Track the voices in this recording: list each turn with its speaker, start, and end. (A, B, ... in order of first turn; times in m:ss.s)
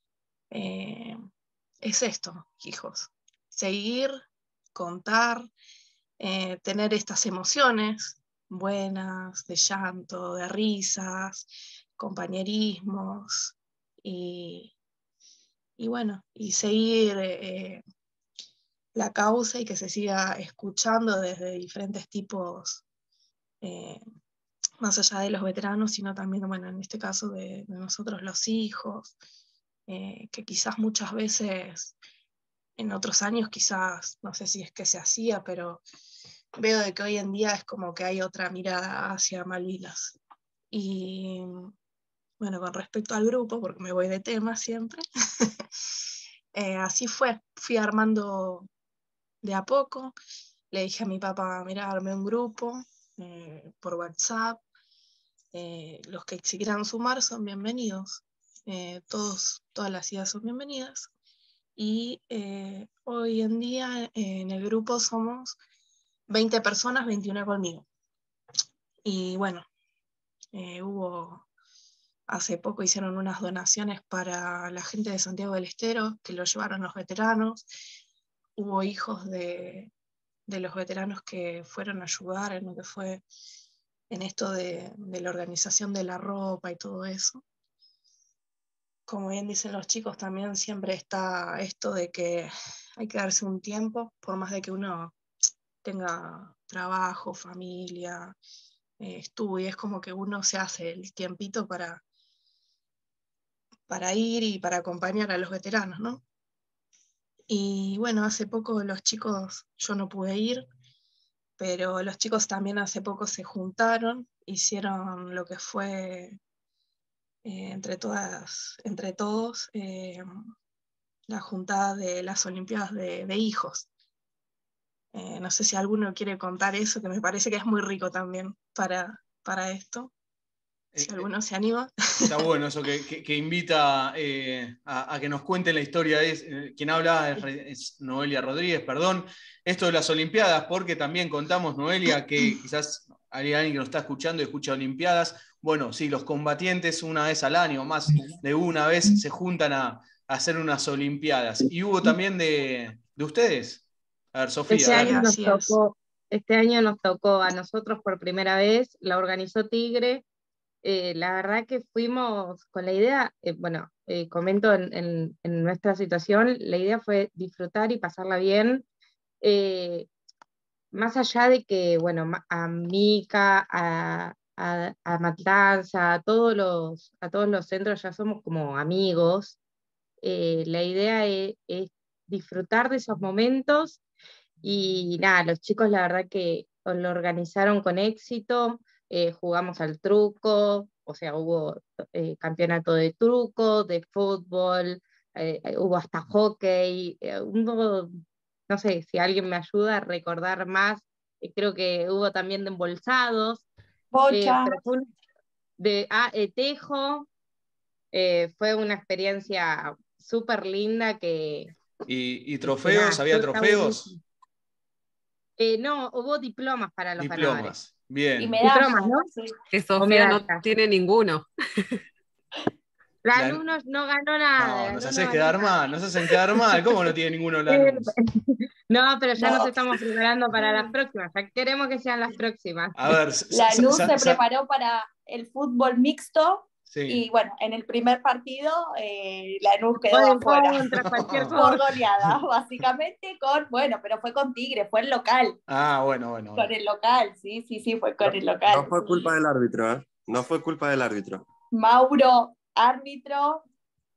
0:00.5-0:01.2 A
0:01.8-0:04.2 A
0:04.7-0:05.5 A
0:06.2-0:14.7 A
0:15.8-0:17.8 A
0:19.0-0:22.8 A
0:23.6-0:24.0 A
0:24.8-0:29.2 A
0:29.9-0:32.0 A
0:32.8-0:35.8 A
0:36.6-0:40.2 A
0:40.7-0:41.7 A
0:42.4-0:45.0 A
0:46.5-0:48.7 A
0:49.4-0:50.2 A
0:50.7-0:54.6 A
0:55.5-1:01.1 A
1:01.8-1:05.6 A
1:06.3-1:07.9 A
1:09.0-1:09.7 A
1:10.5-1:11.4 A
1:12.3-1:17.7 A
1:18.6-1:19.9 A
1:20.5-1:23.2 A
1:24.1-1:27.4 A
1:29.1-1:35.2 A
1:35.8-1:38.4 A
1:39.0-1:42.0 A
1:43.9-1:46.2 A
1:47.5-1:50.7 A
1:51.6-1:56.4 A
1:57.4-2:00.3 A
2:01.3-2:03.9 A
2:05.1-2:10.1 A
2:10.9-2:11.3 B
2:11.0-2:12.4 A
2:12.2-2:35.2 B
2:34.7-2:40.2 C
2:34.8-2:35.8 A
2:40.8-2:48.8 C
2:49.4-2:50.1 C
2:50.9-2:59.6 C
3:00.2-3:04.0 C
3:04.6-3:23.7 C
3:24.1-3:24.8 D
3:24.3-3:25.1 C
3:25.8-3:27.3 C
3:28.1-3:31.7 C
3:32.1-3:34.1 B
3:32.7-3:34.2 C
3:35.6-3:37.8 C
3:37.2-3:38.6 B
3:38.4-3:39.6 D
3:38.6-3:39.3 C
3:39.7-3:42.0 E
3:40.0-3:40.6 C
3:43.2-3:45.7 C
3:43.4-3:43.6 B
3:44.6-3:48.1 B
3:47.7-3:53.2 C
3:49.4-3:49.8 D
3:53.0-3:54.4 B
3:53.5-4:00.9 D
3:56.9-3:57.2 B
4:00.1-4:01.8 C
4:01.0-4:01.6 B
4:01.5-4:05.6 D
4:05.7-4:06.7 B
4:06.6-4:09.3 D
4:08.2-4:11.4 F
4:11.7-4:13.6 D